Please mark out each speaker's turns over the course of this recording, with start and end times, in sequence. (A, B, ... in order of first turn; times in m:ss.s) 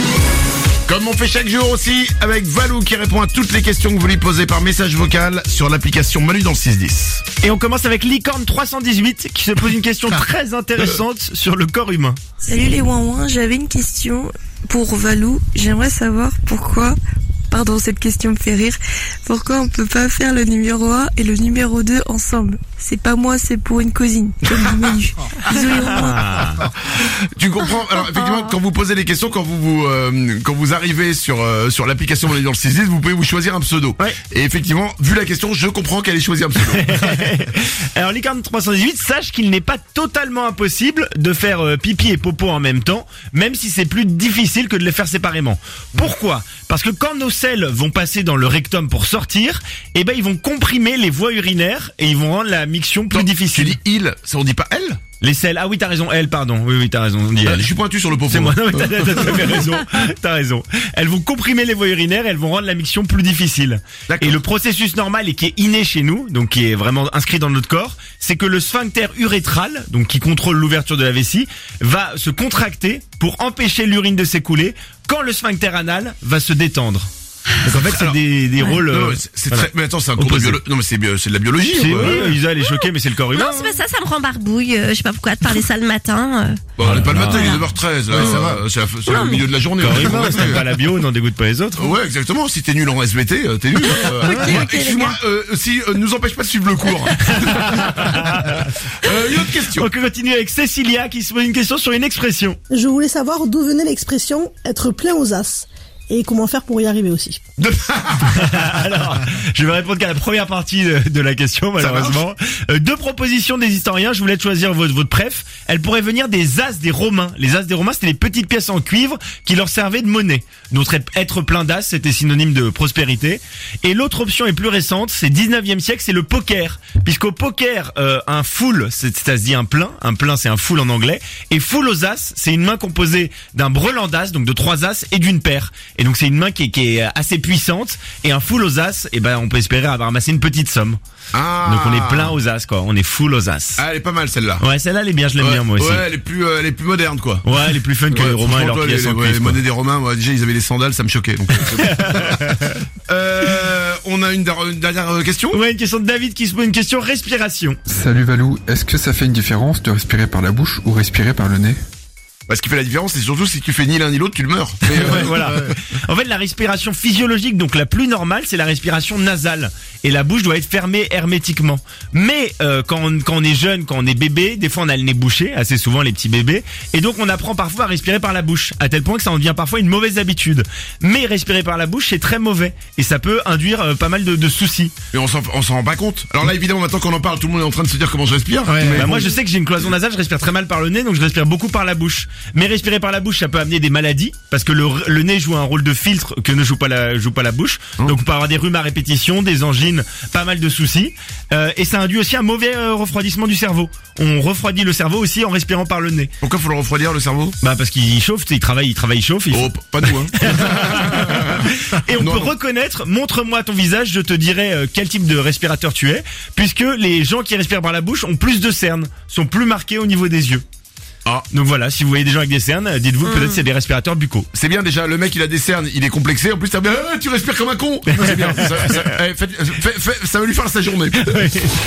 0:00.9-0:07.2 A
0:07.4-0:12.2 B
0:12.5-0:17.0 C
0:17.5-0:26.2 C
0:25.5-0:26.6 B
0:27.0-0:37.1 A
0:36.7-0:53.8 B
0:53.1-0:55.0 A
0:55.2-0:57.7 B
0:57.4-0:59.5 A
0:58.3-1:17.1 B
1:04.1-1:04.4 A
1:17.6-1:20.6 B
1:17.7-1:22.4 A
1:21.7-1:23.8 B
1:23.3-1:26.6 D
1:26.8-1:30.6 A
1:26.8-1:27.1 B
1:27.1-1:27.6 D
1:29.1-1:29.4 D
1:29.8-1:31.9 B
1:31.8-1:39.9 A
1:33.9-1:35.2 D
1:37.5-1:38.6 B
1:39.7-1:42.6 B
1:42.7-1:47.4 E
1:47.6-1:48.4 A
1:48.2-2:21.0 B
1:51.8-1:52.2 A
2:21.3-2:22.4 A
2:21.6-2:23.8 B
2:23.8-2:24.6 A
2:24.6-2:26.1 B
2:25.4-2:27.5 A
2:27.4-2:29.6 B
2:28.1-2:32.4 A
2:31.9-2:32.8 B
2:33.1-2:35.6 A
2:35.5-2:37.8 B
2:37.9-2:41.8 F
2:42.5-2:45.4 A
2:44.9-3:04.9 B
3:05.1-3:09.2 A
3:08.9-3:26.3 B
3:26.4-3:27.6 A
3:27.6-3:40.6 B
3:29.5-3:31.6 A
3:32.2-3:32.5 A
3:41.5-3:44.5 B
3:44.5-3:51.4 A
3:48.2-3:49.1 B
3:51.2-3:51.8 B